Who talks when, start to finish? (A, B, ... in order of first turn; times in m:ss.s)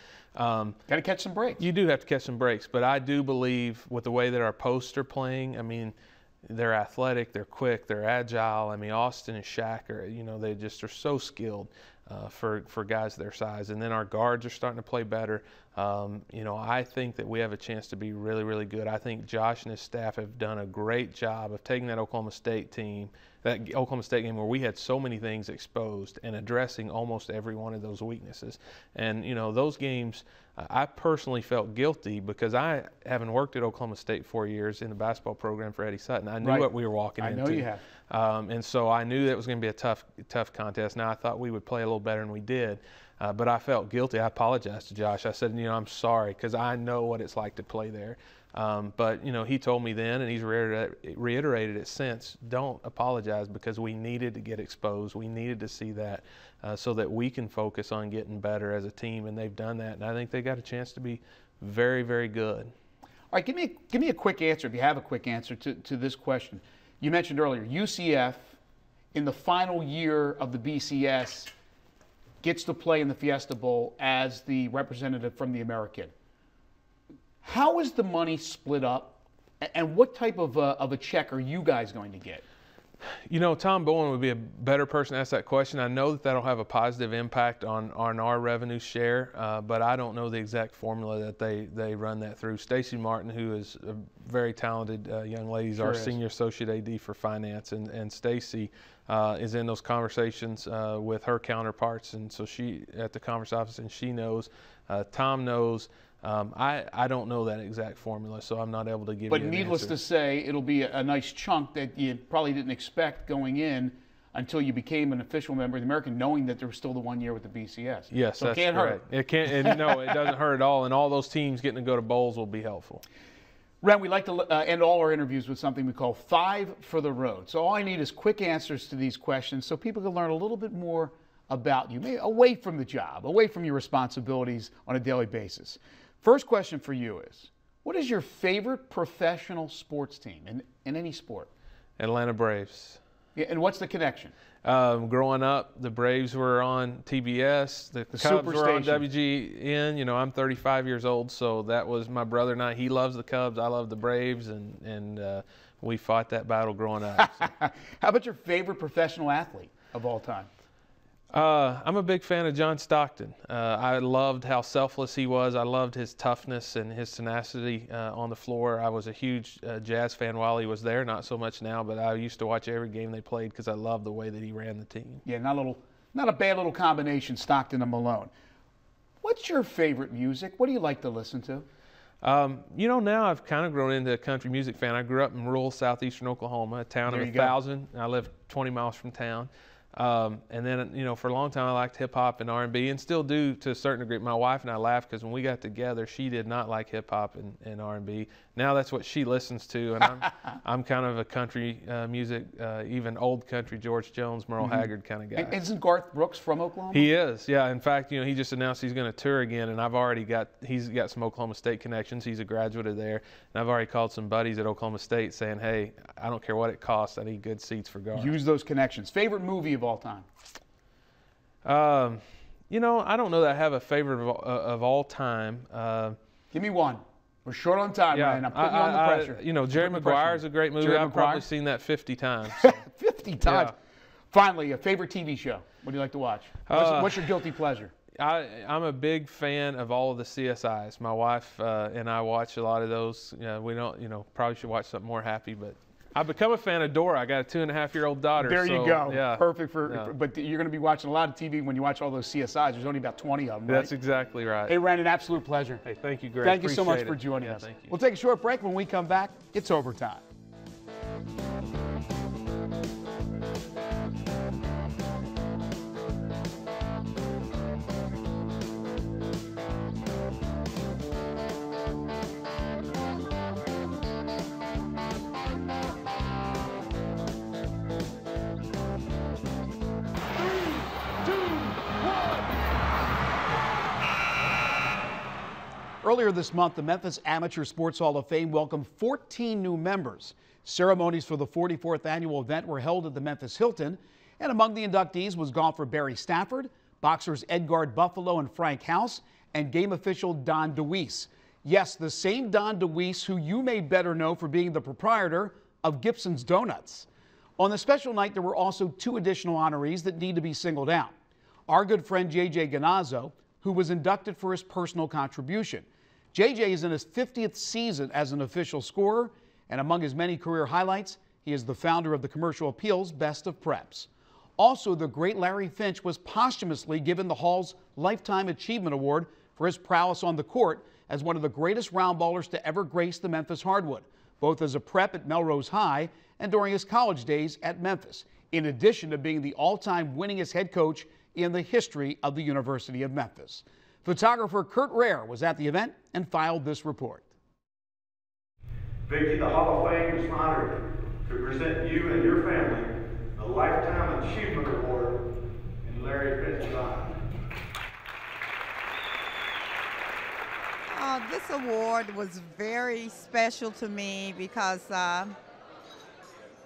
0:00.3-0:00.8 A
0:00.9-0:01.6 B
0:01.6-1:02.7 A
0:36.4-0:37.8 B
1:03.3-1:08.6 B
1:09.1-1:11.5 B
1:12.4-1:16.1 B
1:17.4-1:22.4 B
1:23.1-1:50.0 A
1:35.8-1:36.2 B
1:49.3-1:59.0 B
1:58.1-2:03.0 A
1:59.6-2:00.0 B
2:03.8-2:21.5 B
2:22.0-2:23.0 A
2:23.4-2:24.3 B
2:24.6-2:37.5 A
2:28.1-2:29.0 B
2:37.3-2:40.5 B
2:41.3-2:55.2 A
2:55.2-2:58.3 B
2:59.2-3:01.6 B
3:02.2-3:25.6 A
3:07.1-3:07.5 B
3:24.6-3:27.1 B
3:26.9-3:38.3 A
3:38.1-3:40.3 B
3:41.6-3:46.2 A
3:46.5-3:51.5 B
3:48.1-3:52.8 A
3:52.6-3:53.8 B
3:53.4-3:53.7 A
3:54.3-3:57.9 B
3:56.7-3:57.4 A
3:58.1-4:10.1 A
4:08.4-4:13.9 B
4:13.7-4:14.8 A
4:14.7-4:15.8 B
4:15.8-4:17.9 A
4:16.4-4:20.2 B
4:46.0-5:07.1 B
5:07.6-5:11.1 B
5:11.7-5:47.2 B
5:49.0-5:55.2 C
5:55.8-5:57.2 C
6:00.9-6:05.3 D